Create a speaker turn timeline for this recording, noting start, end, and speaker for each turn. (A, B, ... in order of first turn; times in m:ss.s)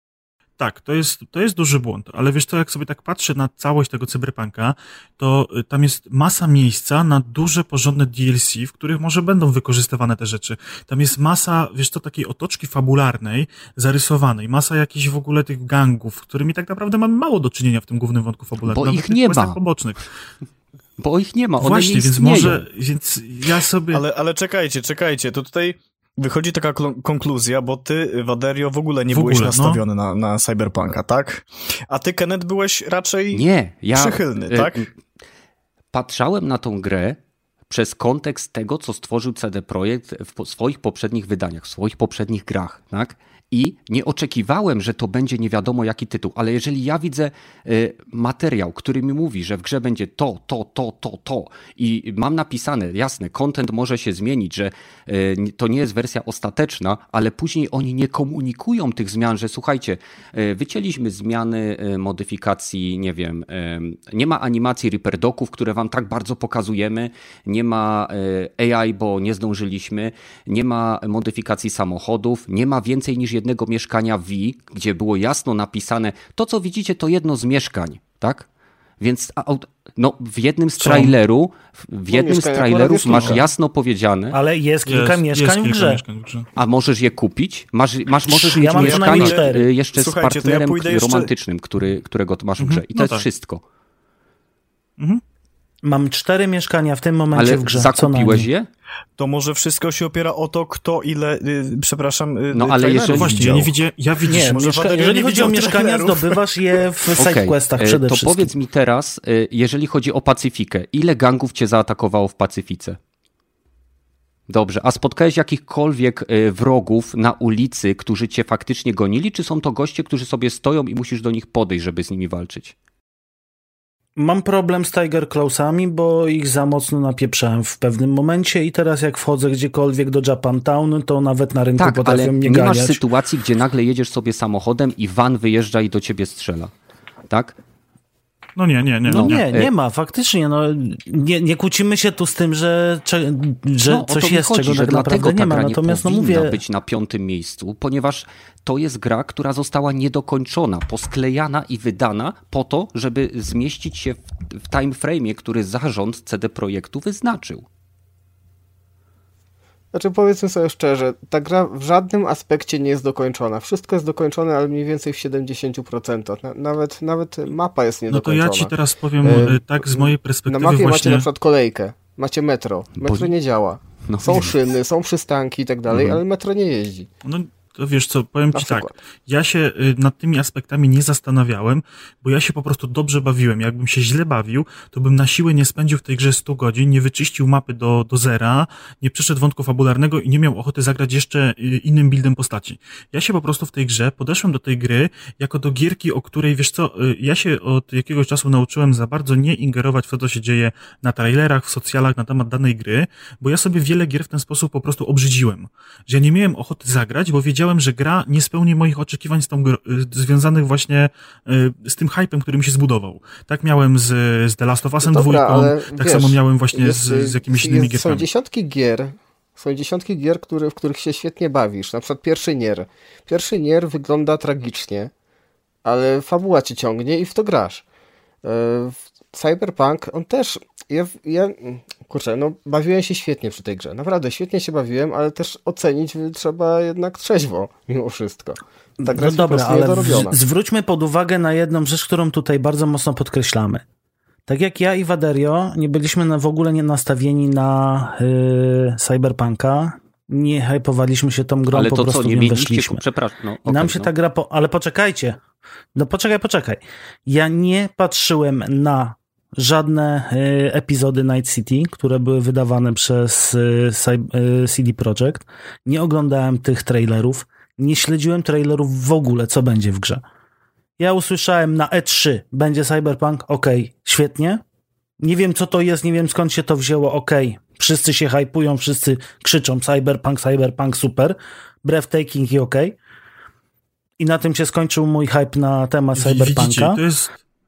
0:00.6-0:20.1 A
0:18.7-0:19.6 B
0:21.0-0:22.6 B
0:21.6-0:24.0 A
0:23.9-0:34.9 C
0:29.1-0:29.8 A
0:33.3-0:34.9 B
0:35.9-0:37.2 B
0:37.7-1:18.5 B
1:19.0-1:24.4 B
1:20.8-1:21.1 A
1:22.1-1:23.5 D
1:23.0-1:23.4 A
1:24.3-1:26.0 E
1:24.8-1:26.5 A
1:26.6-1:33.6 B
1:28.3-1:29.6 E
1:28.8-1:31.3 C
1:32.6-1:33.3 A
1:35.8-1:38.5 E
1:37.3-1:38.7 B
1:39.2-1:46.4 C
1:42.5-1:43.5 B
1:43.1-1:44.7 A
1:44.3-1:48.5 E
1:47.2-1:53.0 B
1:54.5-2:02.7 B
2:04.2-2:13.0 E
2:11.8-2:16.7 B
2:17.3-2:17.6 B
2:18.6-2:19.4 A
2:19.1-2:26.6 E
2:19.1-2:19.7 B
2:23.8-2:37.6 B
2:39.9-2:57.1 D
2:48.1-2:51.3 A
2:53.0-2:53.3 B
2:54.1-2:54.6 B
2:55.9-2:56.2 B
2:57.2-3:38.3 A
2:58.5-2:59.0 D
3:35.0-3:45.1 D
3:45.8-3:47.8 D
3:48.4-4:00.4 D
3:59.0-4:03.8 E
4:04.5-4:13.0 E
4:11.7-4:14.1 B
4:13.6-4:15.4 E
4:15.9-4:30.2 E
4:31.0-4:34.6 E
4:35.2-4:43.0 E
4:44.2-4:47.0 E
4:46.1-4:47.4 A